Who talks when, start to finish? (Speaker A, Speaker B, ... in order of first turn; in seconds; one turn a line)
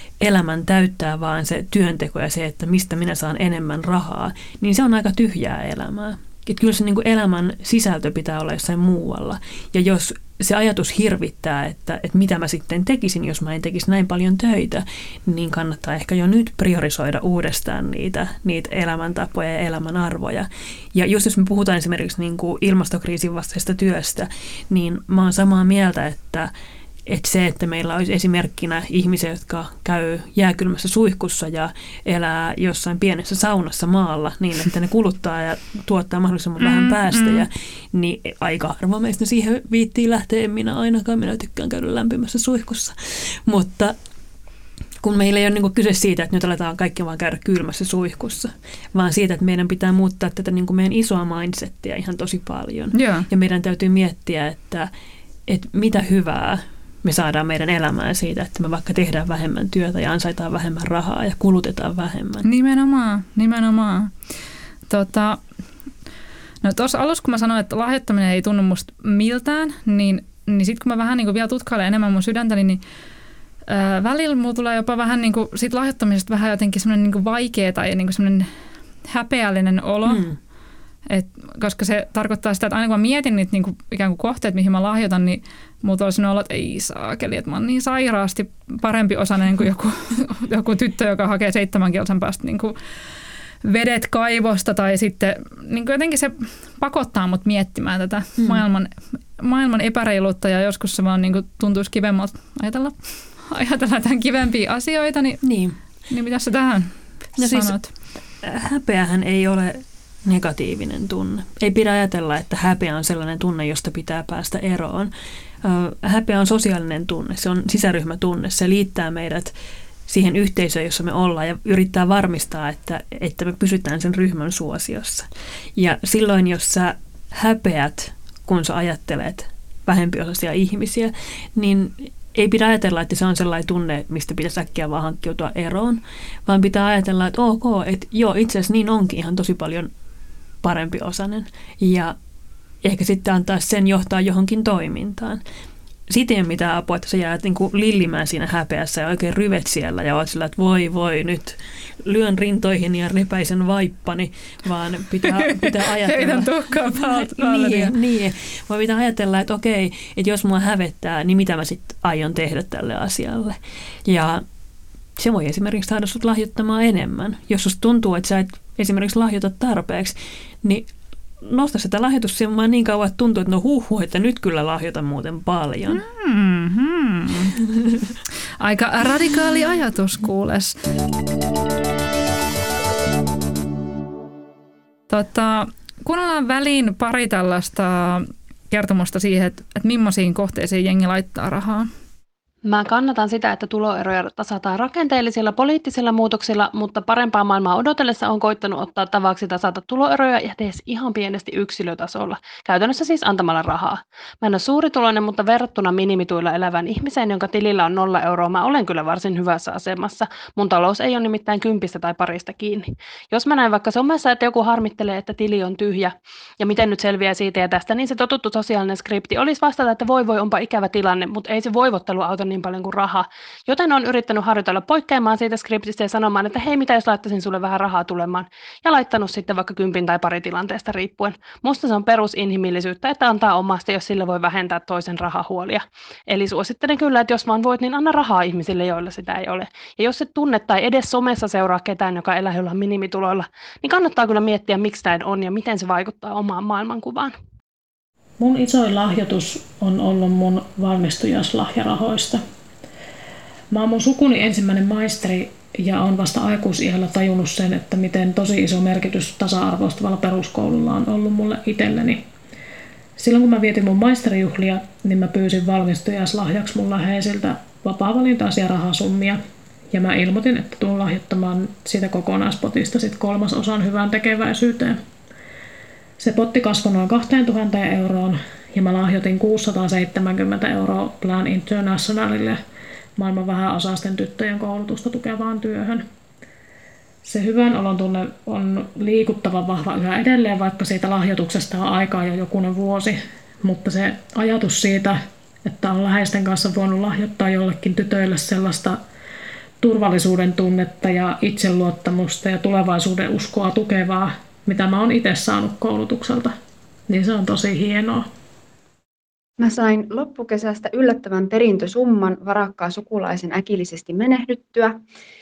Speaker A: 0.2-26.5
Speaker A: 27.1-44.0
Speaker B: 36.6-37.4
Speaker A: 45.0-54.9
Speaker B: 52.9-53.3
Speaker A: 55.5-62.5
Speaker B: 62.4-64.1
Speaker B: 64.9-65.4
Speaker B: 66.6-72.8
Speaker B: 73.7-78.5
Speaker B: 79.0-80.2
Speaker A: 80.0-80.3
Speaker B: 81.1-92.8
Speaker B: 93.6-105.4
Speaker A: 98.4-98.6
Speaker A: 105.4-105.8
Speaker B: 106.1-107.9
Speaker A: 107.4-107.8
Speaker A: 108.4-115.1
Speaker A: 115.6-119.5
Speaker A: 120.1-139.9
Speaker A: 140.6-142.1
Speaker A: 142.8-145.4
Speaker A: 146.1-164.4
Speaker B: 155.3-157.9
Speaker A: 165.2-170.9
Speaker A: 171.4-176.0
Speaker B: 175.9-177.6
Speaker A: 177.8-178.1
Speaker B: 178.6-180.8
Speaker B: 185.1-191.9
Speaker C: 192.6-247.3
Speaker D: 248.4-252.4
Speaker D: 253.7-262.2
Speaker D: 263.2-269.4
Speaker D: 269.9-275.0
Speaker D: 276.2-282.6
Speaker D: 283.1-286.0
Speaker D: 287.2-299.0
Speaker D: 299.8-306.6
Speaker D: 307.1-308.3
Speaker E: 309.6-315.0